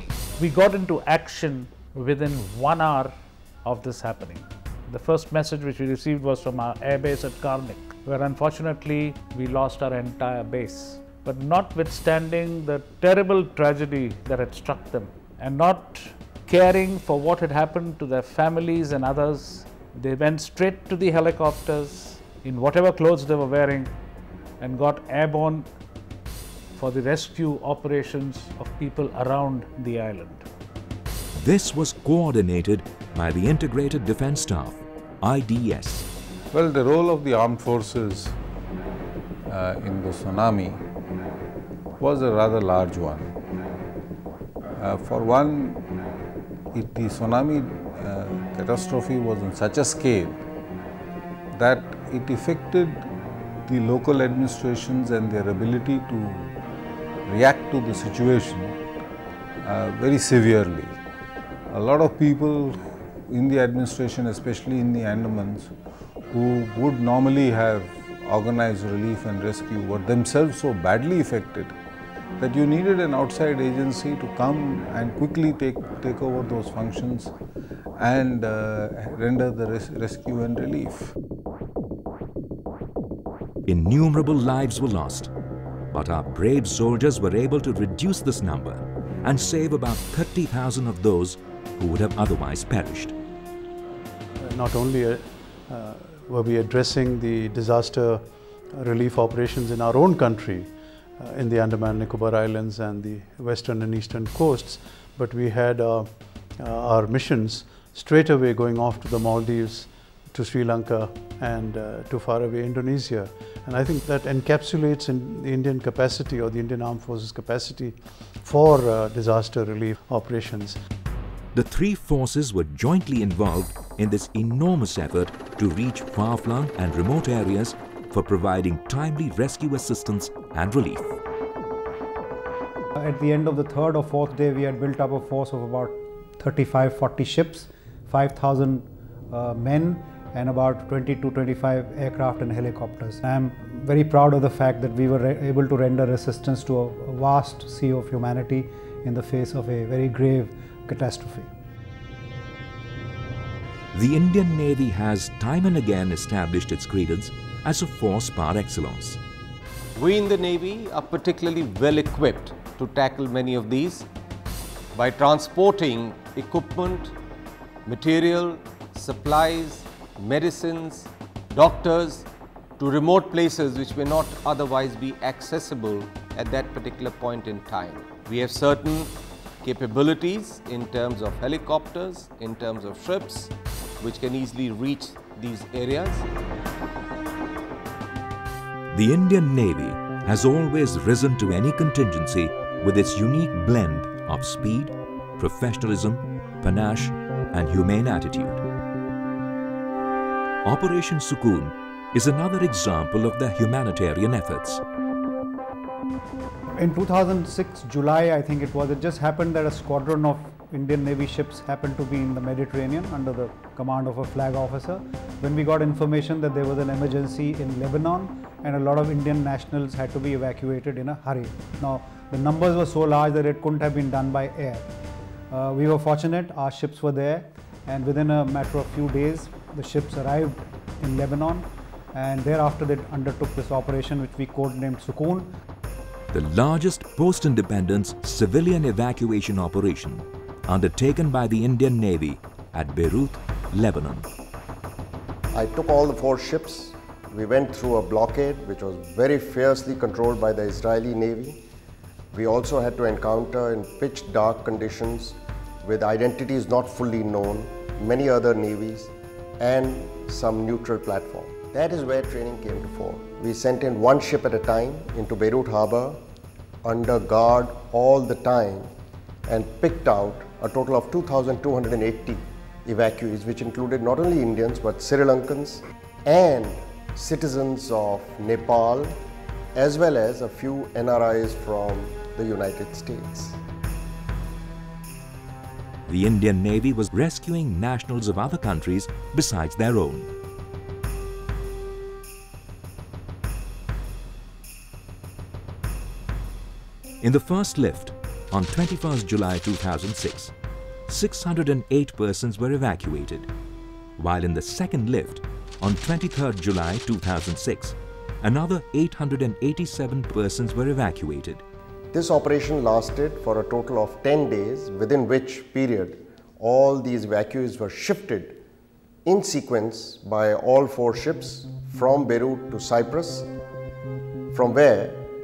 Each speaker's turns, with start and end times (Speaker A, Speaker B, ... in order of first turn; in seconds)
Speaker A: 0.4-23.9, 24.6-25.7, 26.8-30.4
Speaker B: 31.3-36.1, 83.7-85.3, 85.9-93.1, 121.5-131.2, 153.9-159.2, 188.9-198.6, 200.6-204.8, 236.3-244.3, 286.1-290.3, 297.2-300.5, 301.1-303.5, 304.2-311.6
Speaker C: 36.5-38.4, 39.4-40.8, 42.0-43.3, 44.8-45.8, 46.7-50.4, 51.5-53.1, 53.6-56.5, 57.2-58.8, 59.6-61.0, 61.7-65.7, 66.3-71.8, 72.4-77.3, 78.0-81.1
Speaker D: 94.4-120.8
Speaker E: 133.0-151.4, 206.8-224.9, 225.5-235.5
Speaker F: 159.9-164.1, 164.9-167.1, 167.8-172.3, 172.8-186.2
Speaker G: 245.5-251.6, 252.3-266.2, 266.8-268.9, 269.5-279.2, 279.7-283.6, 312.1-318.6, 319.2-323.5, 324.5-325.2